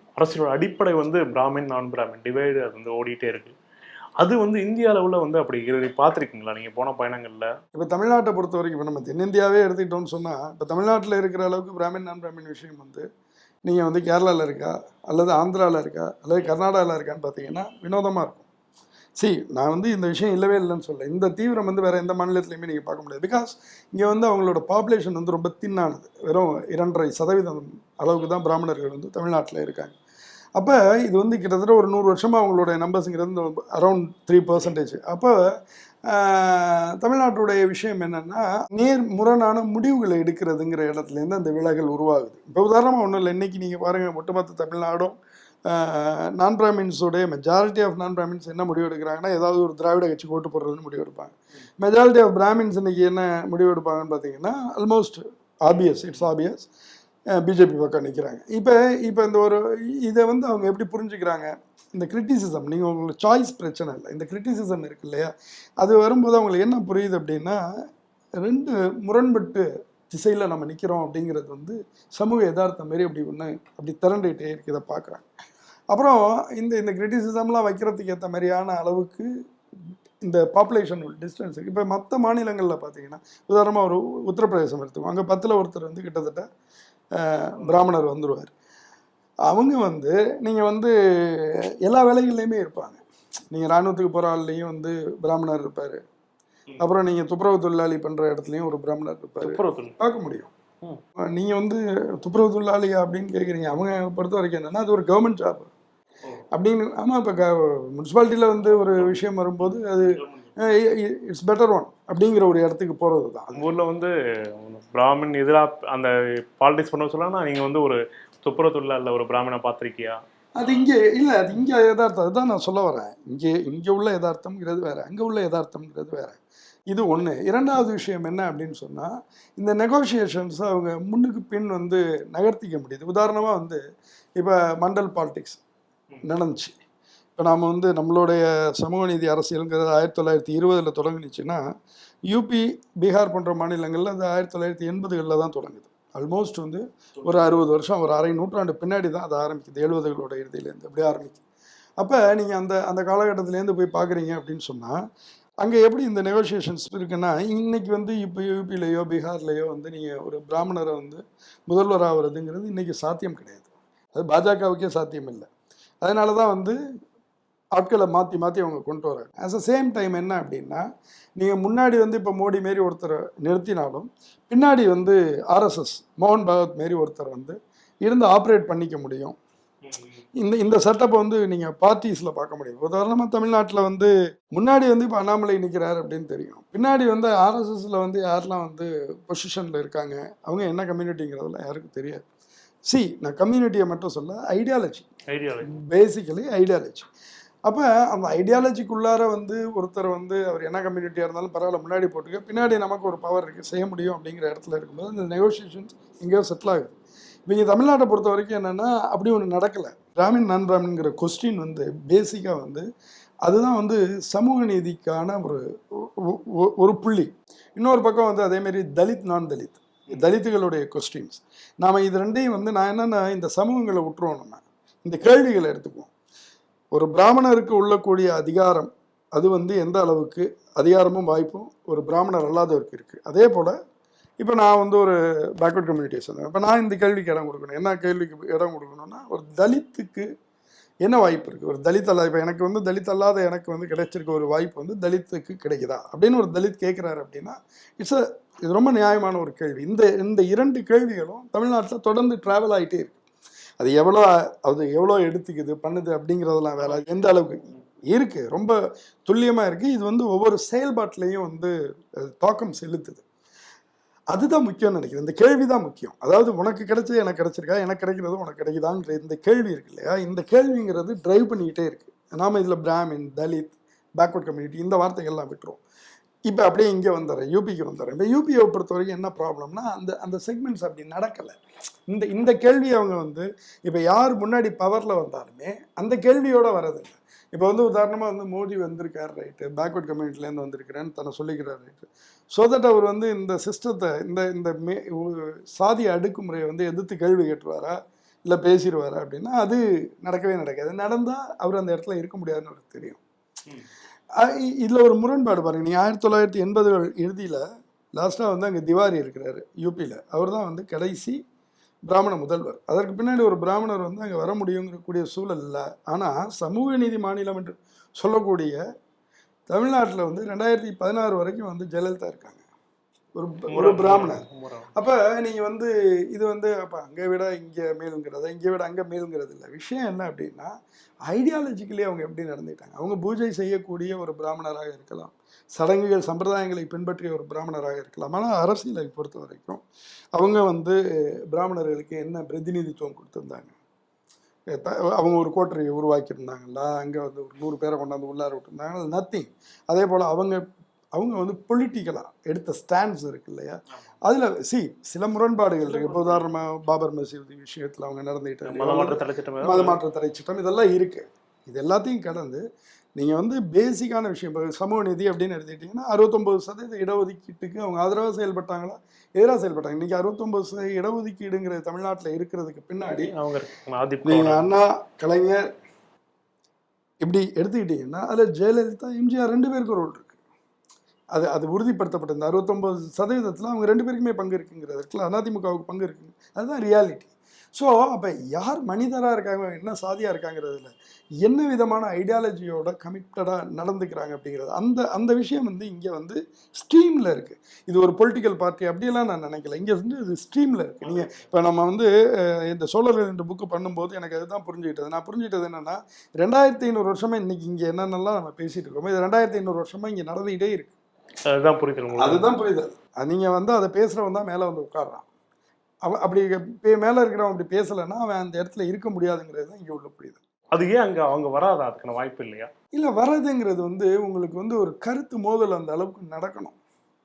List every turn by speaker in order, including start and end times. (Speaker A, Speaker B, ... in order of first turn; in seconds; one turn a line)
Speaker A: 0.2-3.5
Speaker A: 4.2-7.5
Speaker B: 7.7-13.0
Speaker B: 13.7-18.5
Speaker B: 19.2-29.9
Speaker B: 30.6-35.5
Speaker B: 36.0-56.7
Speaker A: 55.8-56.1
Speaker B: 57.3-67.6
Speaker B: 68.4-75.2
Speaker B: 75.9-79.3
Speaker B: 80.2-86.5
Speaker B: 87.1-88.5
Speaker B: 89.5-96.0
Speaker B: 96.8-100.5
Speaker A: 99.4-100.0
Speaker B: 101.3-105.7
Speaker B: 106.5-113.6
Speaker A: 113.5-120.2
Speaker B: 120.5-126.4
Speaker B: 126.9-133.8
Speaker B: 134.4-135.6
Speaker B: 136.2-136.8
Speaker B: 137.4-141.6
Speaker B: 142.3-151.4
Speaker B: 152.0-155.0
Speaker B: 155.6-165.5
Speaker B: 166.0-166.8
Speaker B: 167.8-170.8
Speaker B: 171.4-179.3
Speaker A: 179.8-180.2
Speaker B: 180.4-192.2
Speaker B: 192.8-195.1
Speaker A: 195.3-195.7
Speaker B: 195.7-197.1
Speaker B: 197.7-206.9
Speaker B: 207.5-212.8
Speaker B: 213.4-226.1
Speaker B: 226.9-233.7
Speaker B: 234.4-240.3
Speaker B: 241.0-253.2
Speaker B: 253.8-258.7
Speaker A: 256.8-257.1
Speaker B: 259.3-263.2
Speaker B: 264.3-275.8
Speaker B: 276.5-281.6
Speaker B: 282.1-303.2
Speaker B: 304.4-311.4
Speaker B: 312.1-318.8
Speaker B: 319.7-322.6
Speaker B: 323.3-330.7
Speaker A: 323.7-324.9
Speaker B: 331.3-339.8
Speaker B: 340.3-341.0
Speaker B: 341.5-343.7
Speaker B: 344.7-350.6
Speaker B: 351.1-362.6
Speaker A: 355.9-356.5
Speaker A: 358.6-360.0
Speaker B: 363.1-373.3
Speaker A: 373.1-374.6
Speaker B: 374.2-375.7
Speaker B: 377.2-380.3
Speaker B: 381.3-410.9
Speaker A: 401.0-401.5
Speaker A: 411.4-412.5
Speaker B: 412.2-415.2
Speaker B: 416.1-420.4
Speaker A: 420.7-422.7
Speaker B: 422.9-426.8